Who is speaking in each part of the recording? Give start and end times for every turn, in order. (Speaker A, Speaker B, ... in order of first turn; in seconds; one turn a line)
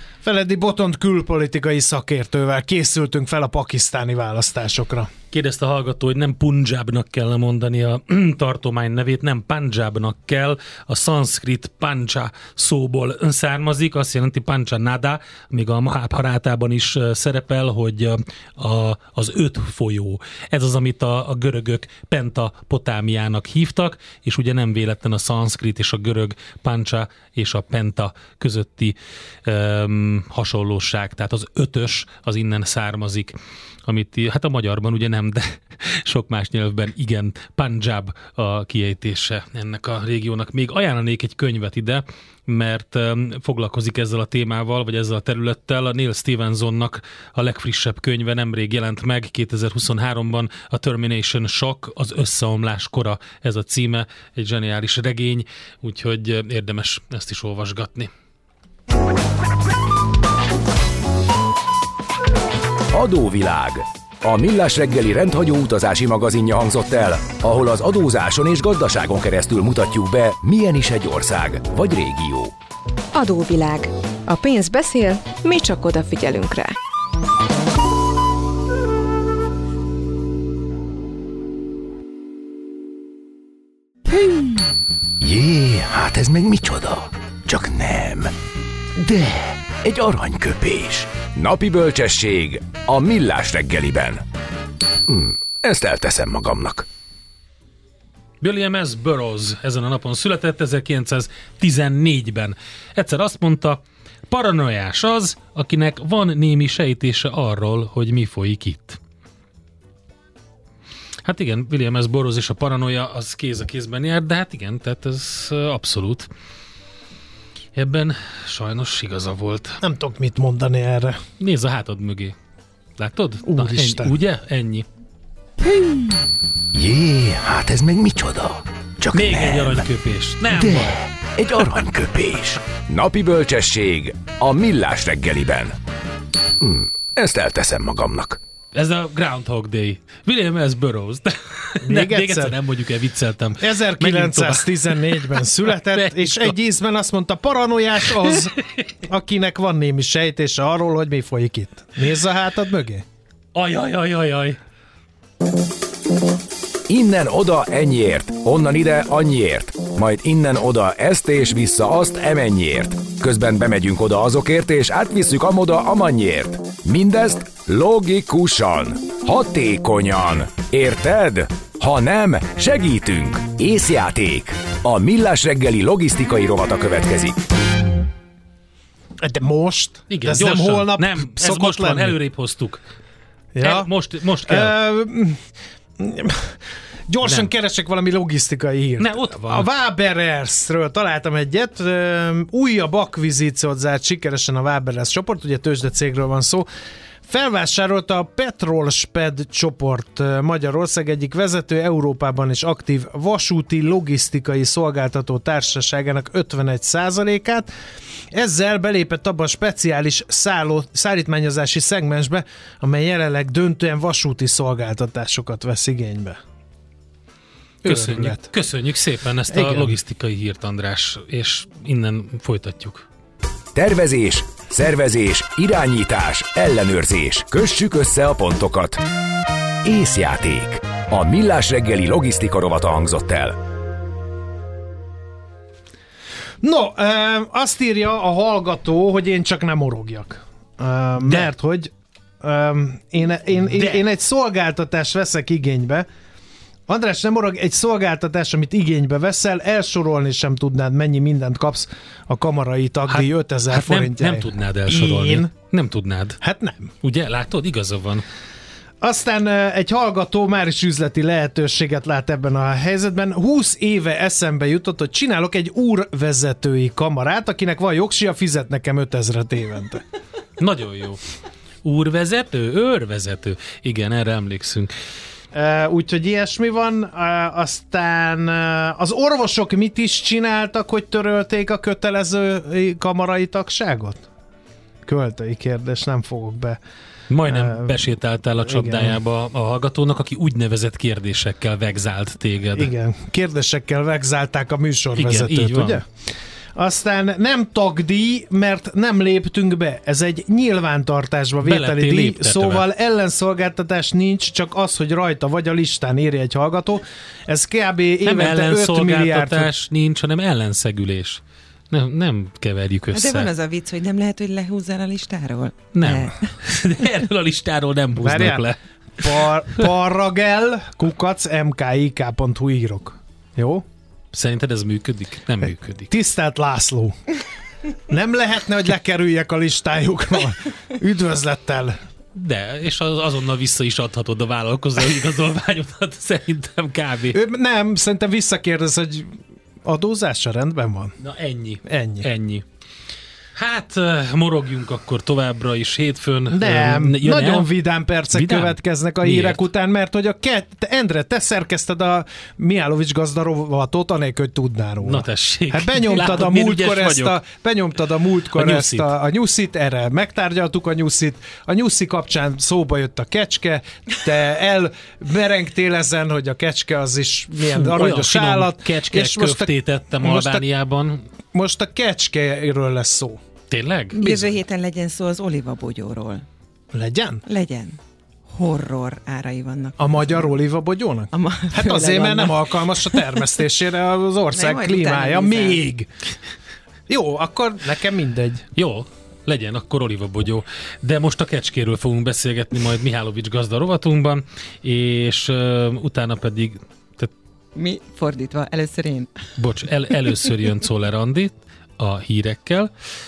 Speaker A: 0.2-5.1
Speaker B: 5.3-33.3
Speaker B: 33.9-58.1
Speaker C: 62.9-72.5
Speaker D: 73.1-76.7
Speaker C: 85.2-88.3
Speaker C: 89.0-94.2
Speaker C: 95.1-96.8
Speaker B: 98.4-109.0
Speaker B: 111.2-116.3
Speaker B: 117.8-119.8
Speaker A: 119.8-121.2
Speaker B: 121.4-122.3
Speaker B: 123.0-124.8
Speaker A: 123.5-124.2
Speaker C: 126.7-129.8
Speaker B: 129.1-131.0
Speaker C: 130.5-135.7
Speaker C: 136.6-138.4
Speaker B: 138.7-146.5
Speaker A: 141.8-142.6
Speaker A: 143.6-153.0
Speaker B: 153.5-154.6
Speaker C: 156.9-177.4
Speaker A: 179.2-182.2
Speaker B: 180.1-182.8
Speaker A: 183.5-183.9
Speaker B: 183.6-184.7
Speaker A: 184.4-185.4
Speaker A: 186.0-196.7
Speaker B: 189.0-189.7
Speaker A: 197.3-207.7
Speaker A: 208.3-216.4
Speaker A: 217.8-218.5
Speaker B: 217.8-223.0
Speaker A: 219.5-219.9
Speaker C: 223.7-229.0
Speaker C: 229.8-233.6
Speaker A: 236.6-246.1
Speaker B: 241.2-241.5
Speaker A: 246.9-255.5
Speaker B: 253.1-256.4
Speaker A: 256.4-256.9
Speaker B: 257.0-258.2
Speaker A: 259.0-270.0
Speaker B: 270.6-271.2
Speaker B: 271.8-274.9
Speaker A: 275.5-284.2
Speaker A: 285.0-286.8
Speaker B: 287.3-292.9
Speaker A: 287.5-288.0
Speaker A: 288.6-289.2
Speaker A: 292.7-296.0
Speaker B: 295.2-296.0
Speaker A: 296.7-309.7
Speaker B: 301.6-302.8
Speaker B: 308.2-311.4
Speaker B: 311.9-313.5
Speaker E: 313.1-316.5
Speaker B: 315.9-319.9
Speaker A: 318.1-323.8
Speaker B: 324.3-326.1
Speaker A: 326.1-327.2
Speaker A: 328.1-332.0
Speaker B: 332.3-337.4
Speaker A: 337.3-341.1
Speaker B: 341.2-342.6
Speaker A: 341.9-342.3
Speaker B: 343.5-347.7
Speaker A: 346.5-370.6
Speaker B: 348.3-349.6
Speaker B: 355.0-357.4
Speaker B: 358.5-359.1
Speaker B: 367.7-371.2
Speaker A: 371.5-373.4
Speaker B: 373.7-374.2
Speaker E: 374.1-376.4
Speaker A: 374.2-374.5
Speaker A: 376.9-377.4
Speaker E: 377.4-380.5
Speaker A: 380.0-386.1
Speaker E: 381.3-383.4
Speaker E: 384.5-385.8
Speaker A: 387.1-388.6
Speaker B: 388.7-397.3
Speaker E: 397.7-399.5
Speaker B: 399.6-402.9